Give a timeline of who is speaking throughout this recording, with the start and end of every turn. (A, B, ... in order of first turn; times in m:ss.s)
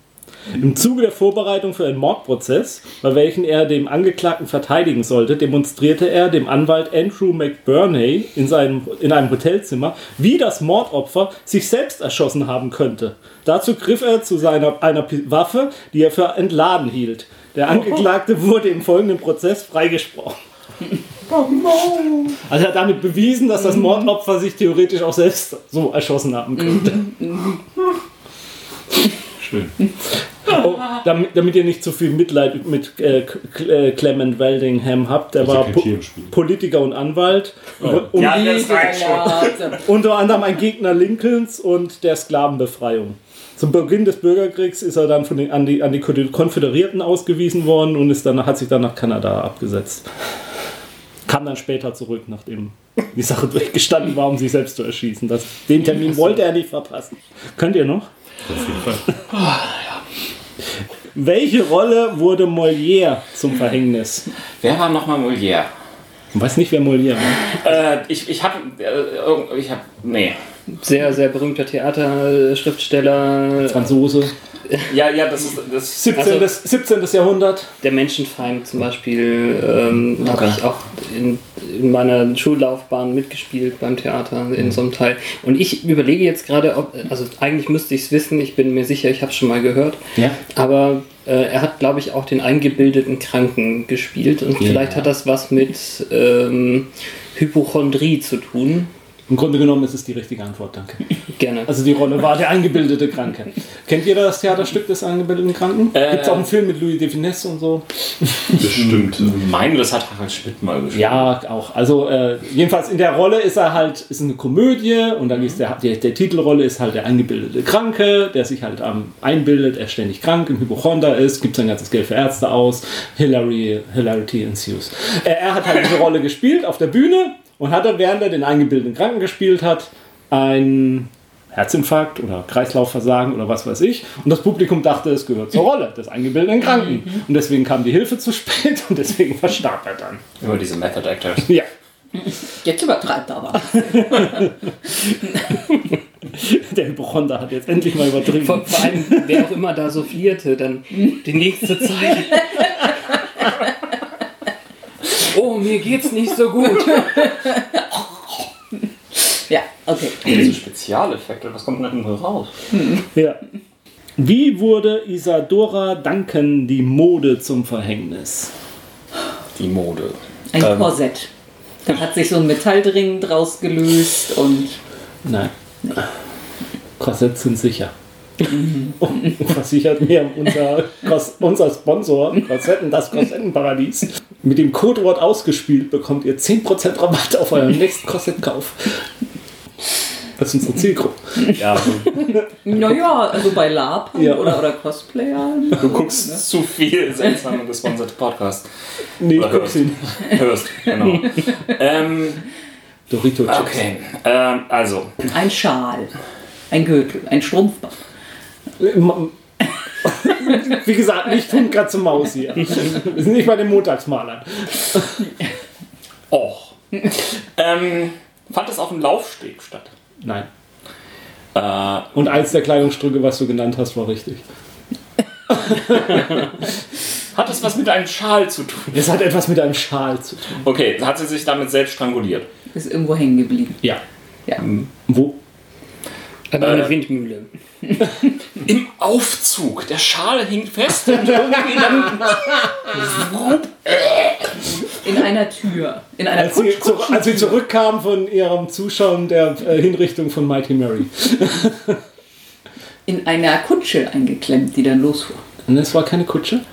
0:00.5-0:20.4 A
0:22.5-0:27.2 A
0:29.4-0:29.7 B
0:30.5-0:38.8 A
0:35.4-0:36.3 B
0:37.8-0:38.1 B
0:38.1-0:39.7 C
0:38.1-0:39.8 D
0:39.8-0:50.1 A
0:51.3-0:58.1 A
0:58.5-0:59.0 B
0:59.3-1:00.0 C
1:01.1-1:04.3 A
1:04.6-1:05.7 C
1:06.3-1:07.5 A
1:07.5-1:10.4 C
1:10.8-1:13.9 E
1:13.7-1:14.3 A
1:14.9-1:16.3 C
1:15.9-1:17.7 A
1:16.1-1:16.5 E
1:17.8-1:30.0 E
1:30.5-1:38.9 E
1:34.6-1:35.1 A
1:39.3-1:41.0 A
1:41.4-1:41.7 E
1:41.6-1:47.8 A
1:45.9-1:46.5 C
1:48.6-1:49.4 B
1:48.8-1:51.3 C
1:50.9-2:20.2 A
2:20.4-2:21.5 C
2:22.6-2:24.4 D
2:26.3-2:29.3 A
2:28.3-2:32.6 E
2:35.2-2:37.3 E
2:39.5-2:40.4 D
2:40.2-2:42.5 C
2:43.1-2:43.4 A
2:44.2-2:48.5 A
2:49.6-2:50.9 C
2:50.5-2:51.3 D
2:51.8-2:54.8 D
2:55.2-2:56.0 A
2:57.0-2:57.9 A
2:58.8-3:09.0 A
3:10.4-3:12.4 A
3:12.6-3:16.4 D
3:14.2-3:14.5 A
3:15.8-3:18.6 C
3:19.2-3:20.1 A
3:19.3-3:22.4 C
3:23.1-3:23.8 A
3:23.5-3:25.2 C
3:25.3-3:26.1 D
3:26.7-3:28.0 D
3:28.8-3:29.3 A
3:30.0-3:35.2 A
3:36.3-3:39.9 C
3:40.2-3:40.5 A
3:41.5-3:42.2 C
3:42.1-3:44.4 A
3:47.3-3:49.1 C
3:48.9-3:50.6 A
3:50.6-3:52.5 C
3:52.7-3:53.8 D
3:55.1-3:55.4 A
3:56.5-3:57.5 E
3:56.6-3:56.9 C
3:58.6-4:04.4 C
4:05.0-4:07.5 D
4:06.3-4:12.0 A
4:13.0-4:15.4 D
4:15.7-4:16.6 A